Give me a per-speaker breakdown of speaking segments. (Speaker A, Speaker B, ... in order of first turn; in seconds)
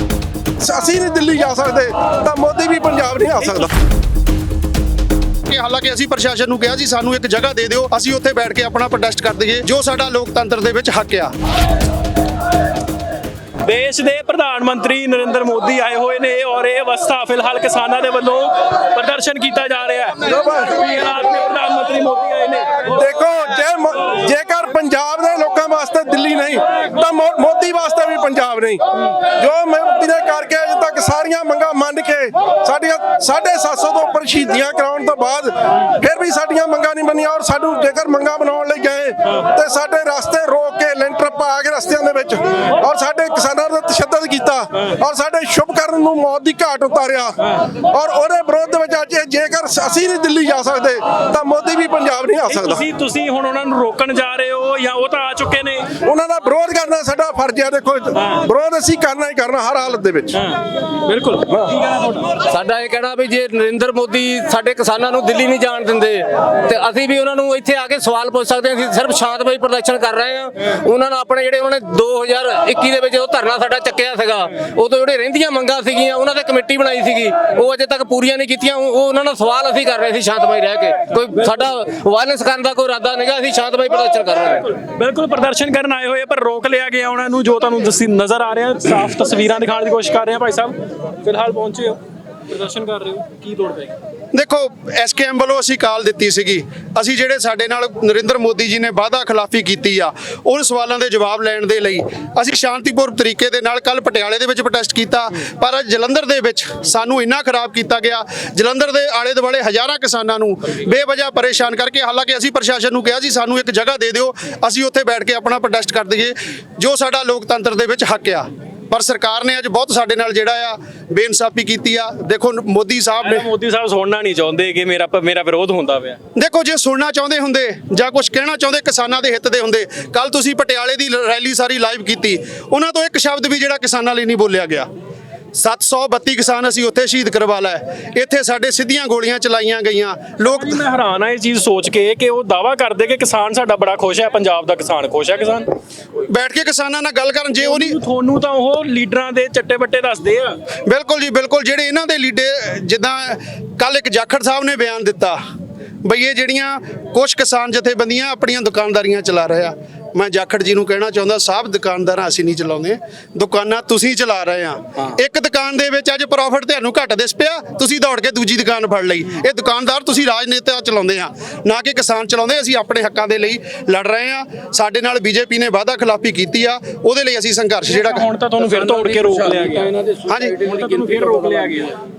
Speaker A: 0.6-3.7, 20.3-20.7, 22.9-28.8, 29.3-47.4, 47.9-52.8, 56.0-60.4
Speaker B: 5.5-11.3, 94.3-123.5, 126.3-134.9, 135.5-140.7, 146.3-147.9, 150.9-155.4, 156.0-178.2, 180.3-180.6
Speaker C: 13.6-22.8, 52.5-55.9, 58.1-58.4, 60.3-62.2, 84.8-93.9, 123.2-126.2, 140.5-145.7, 147.6-150.6, 177.9-179.9, 180.5-182.0
Speaker D: 62.5-84.7